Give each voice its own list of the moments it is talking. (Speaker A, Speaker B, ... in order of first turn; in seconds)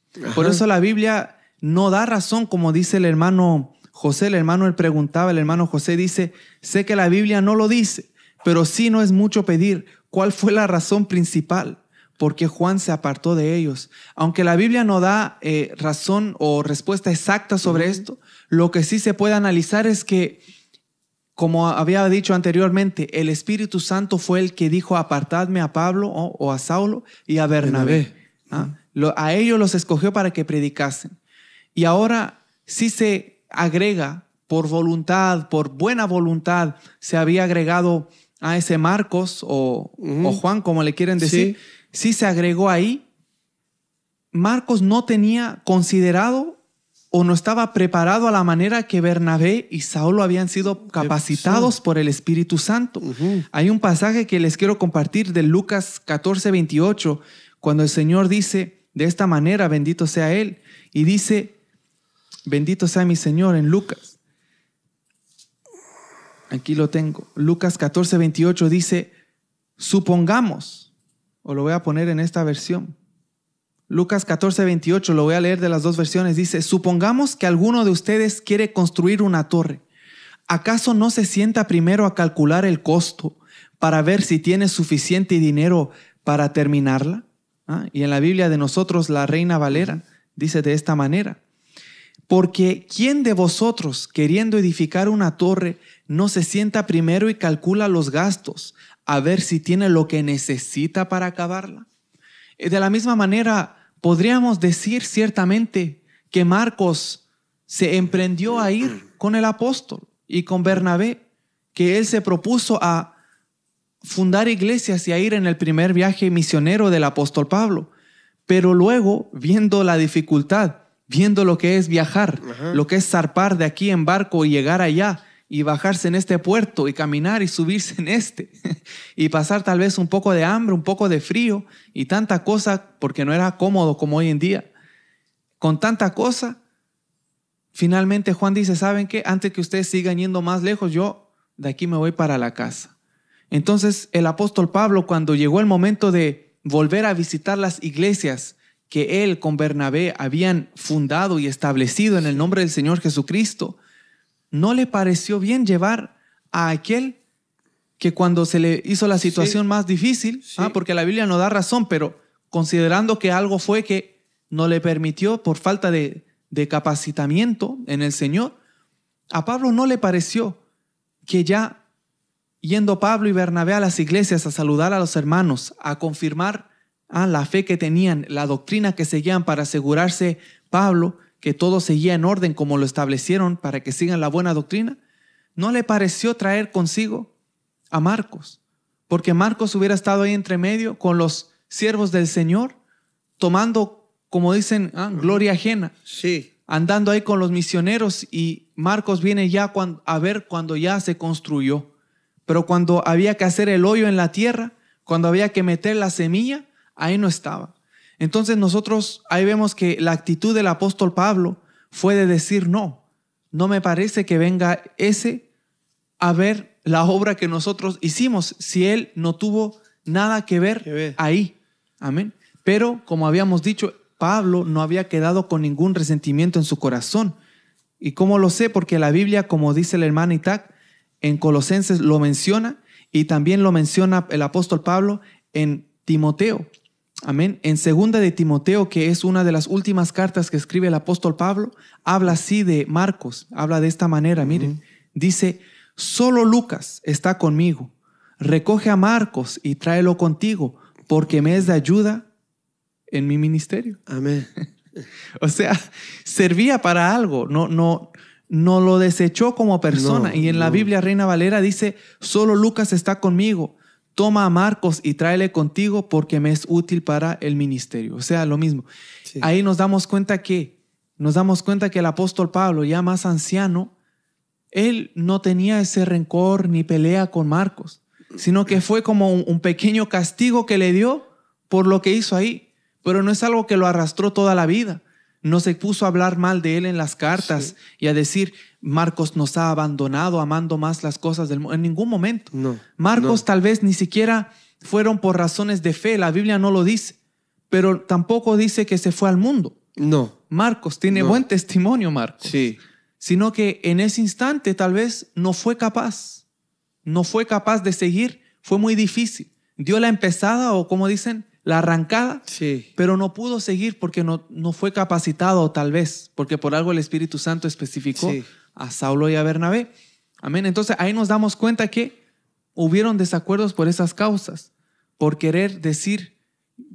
Speaker A: 0.2-0.6, 27.6-28.7, 40.0-40.4, 41.2-41.5, 51.0-51.7, 53.0-53.5, 89.7-90.0, 122.4-122.8, 195.2-195.4, 196.1-196.5, 220.8-221.2, 244.4-244.8, 254.1-254.5, 259.9-260.9, 292.5-293.4, 299.9-300.3, 301.1-301.4, 302.4-302.8, 312.5-312.9, 318.2-318.4
Speaker B: 0.3-20.4, 21.4-31.1, 31.7-43.0, 44.3-46.6, 47.1-61.5, 62.5-64.1, 66.5-69.1, 69.8-70.9, 71.4-72.9, 73.9-79.8, 80.5-91.4, 92.3-101.8, 102.6-111.2, 111.7-113.1, 114.0-117.9, 118.5-128.5, 129.2-134.7, 135.6-136.6, 137.7-142.9, 143.5-153.8, 154.5-157.2, 158.0-168.5, 169.3-170.6, 171.2-171.8, 172.6-185.0, 185.6-187.3, 187.9-188.6, 189.1-192.8, 193.4-195.9, 196.7-201.9, 202.5-215.4, 216.2-227.3, 228.0-236.7, 237.2-252.3, 253.1-254.0, 255.4-268.9, 269.4-273.9, 274.7-297.1, 297.7-299.8, 300.5-302.5, 303.2-306.4, 307.0-312.4, 312.9-319.9, 320.4-322.2, 322.7-326.3